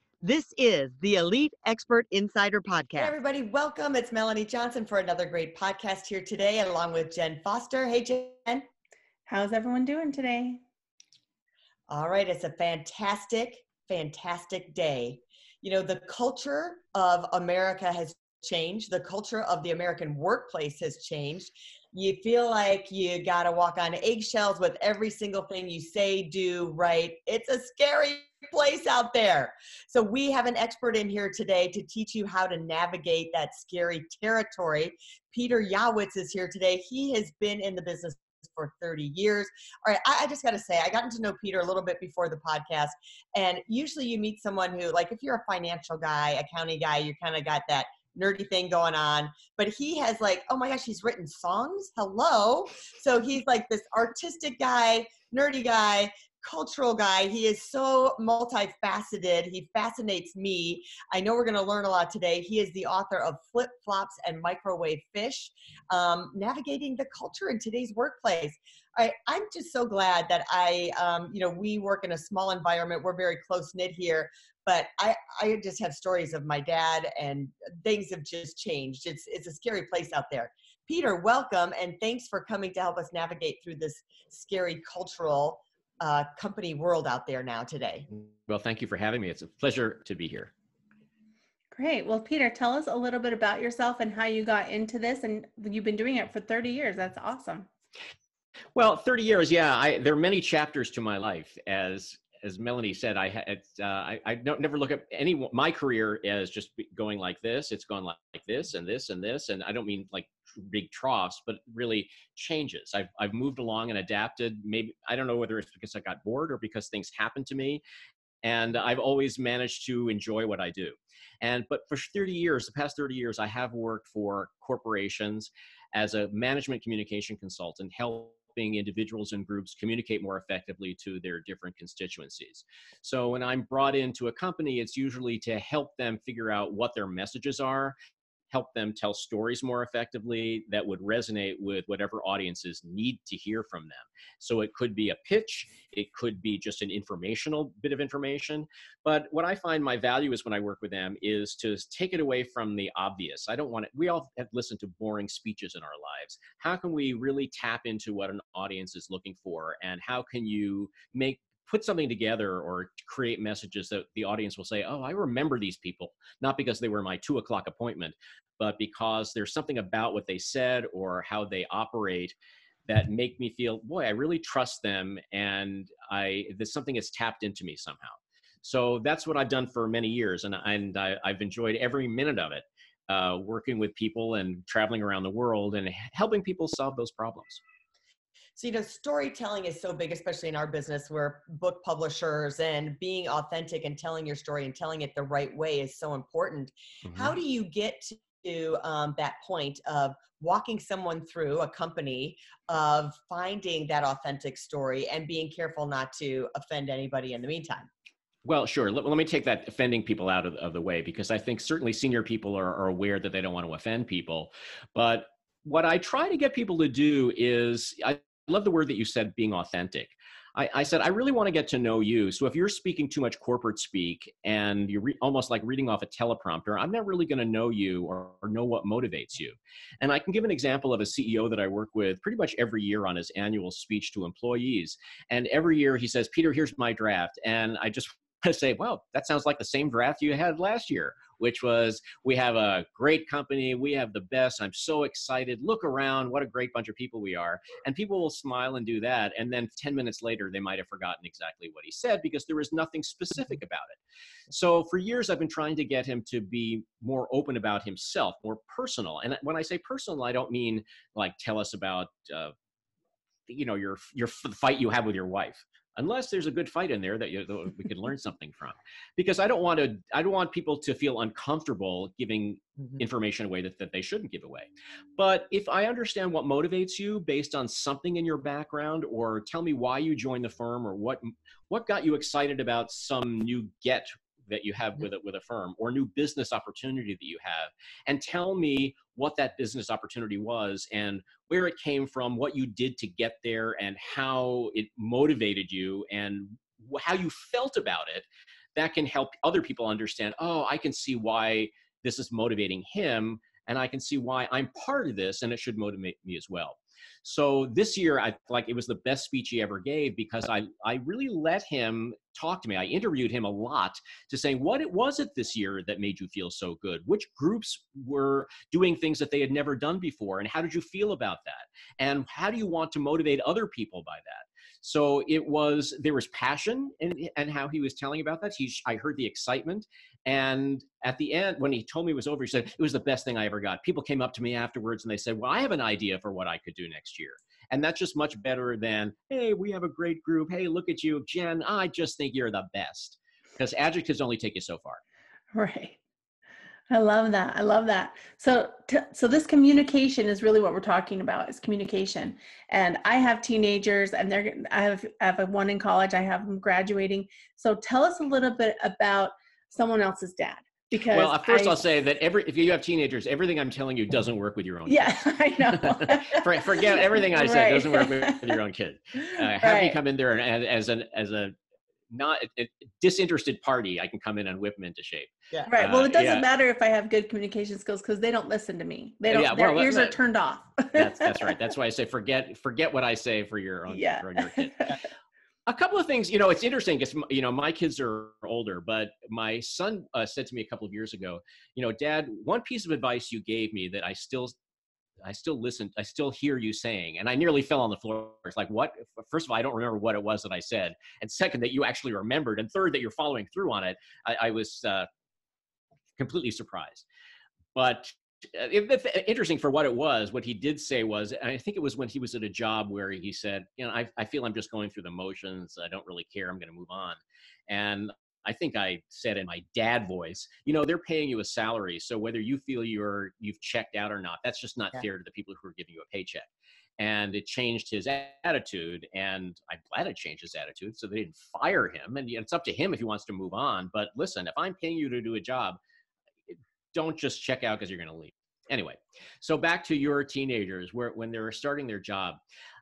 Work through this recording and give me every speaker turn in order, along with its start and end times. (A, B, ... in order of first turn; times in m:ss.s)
0:00.2-0:03.0 A
0:02.9-0:08.7 B
0:09.2-0:10.6 C
0:11.9-1:28.1 B
1:28.1-1:30.5 D
1:31.7-1:37.7 C
1:38.7-1:57.8 D
1:58.4-2:17.9 D
2:18.5-2:52.3 D
2:52.8-3:07.6 D
3:08.6-3:27.9 B
3:17.0-3:17.3 D
3:28.4-4:14.0 D
4:14.5-4:22.5 D
4:23.5-5:45.0 D
5:45.5-5:46.0 C
5:46.9-6:01.8 C
6:01.1-6:11.6 D
6:04.8-6:08.6 C
6:09.2-6:10.0 C
6:12.1-6:16.5 D
6:15.5-6:15.8 B
6:15.7-6:21.6 C
6:19.3-6:20.2 D
6:20.9-6:24.9 D
6:23.9-6:25.0 C
6:25.6-6:34.6 D
6:35.2-6:45.1 D
6:46.2-6:47.0 D
6:47.7-7:15.8 D
7:16.5-7:22.4 D